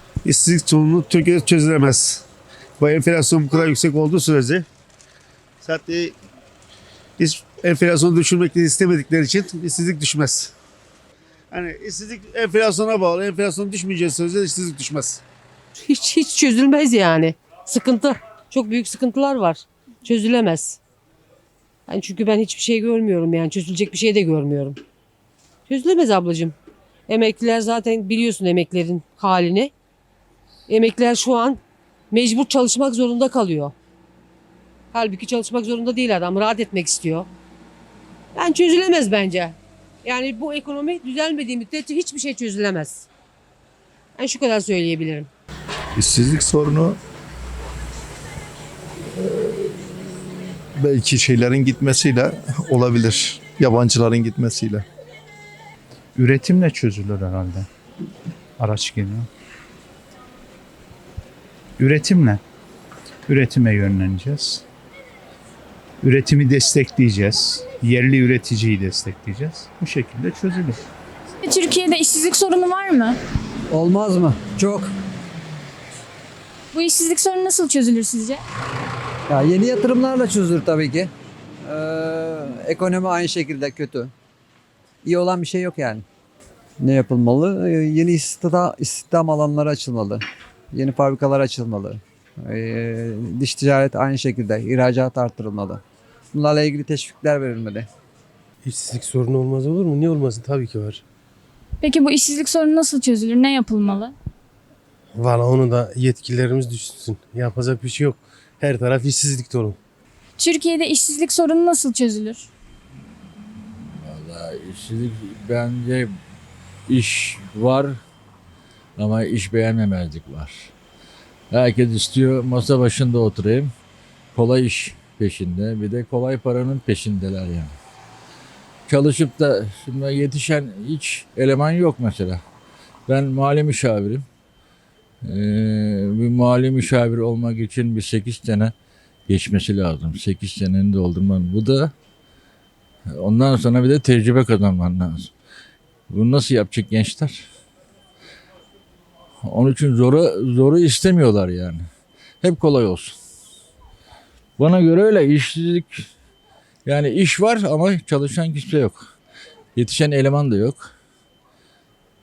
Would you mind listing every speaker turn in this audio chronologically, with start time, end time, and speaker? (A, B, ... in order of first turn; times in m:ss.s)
0:00.2-0:02.2 A
0:02.8-0:04.7 A
0:05.6-0:06.2 A
0:07.2-0:10.5 A
0:11.5-0:15.2 A
0:15.8-0:20.8 B
0:21.9-0:24.8 B
0:25.7-0:26.6 B
0:27.1-0:29.7 B
0:30.7-0:31.6 B
0:32.1-0:33.7 B
0:34.9-0:37.3 B
0:38.4-0:43.1 B
0:44.2-0:45.3 B
0:46.0-0:47.0 C
0:50.8-0:54.9 C
0:56.2-0:57.7 D
0:58.6-0:59.3 D
1:01.8-1:02.4 D
1:03.3-1:04.6 D
1:06.0-1:10.8 D
1:11.4-1:13.2 E
1:13.7-1:14.9 F
1:16.7-1:18.4 E
1:19.3-1:21.1 F
1:21.7-1:24.1 F
1:25.0-1:26.0 F
1:26.8-1:30.2 F
1:30.7-1:35.8 F
1:36.3-1:37.9 F
1:38.6-1:41.0 G
1:41.8-1:44.1 E
1:45.1-1:49.8 G
1:50.4-1:52.5 E
1:54.0-1:56.1 H
1:56.9-1:58.0 H
1:59.0-2:00.7 H
2:01.5-2:03.7 H
2:04.4-2:07.7 H
2:08.9-2:12.4 H
2:13.1-2:14.2 H
2:15.2-2:18.7 H
2:19.3-2:21.9 H
2:23.1-2:25.3 H
2:26.1-2:27.4 H
2:29.4-2:31.8 H
2:32.4-2:33.2 H
2:34.6-2:35.9 H
2:36.9-2:39.0 H
2:39.8-2:40.9 H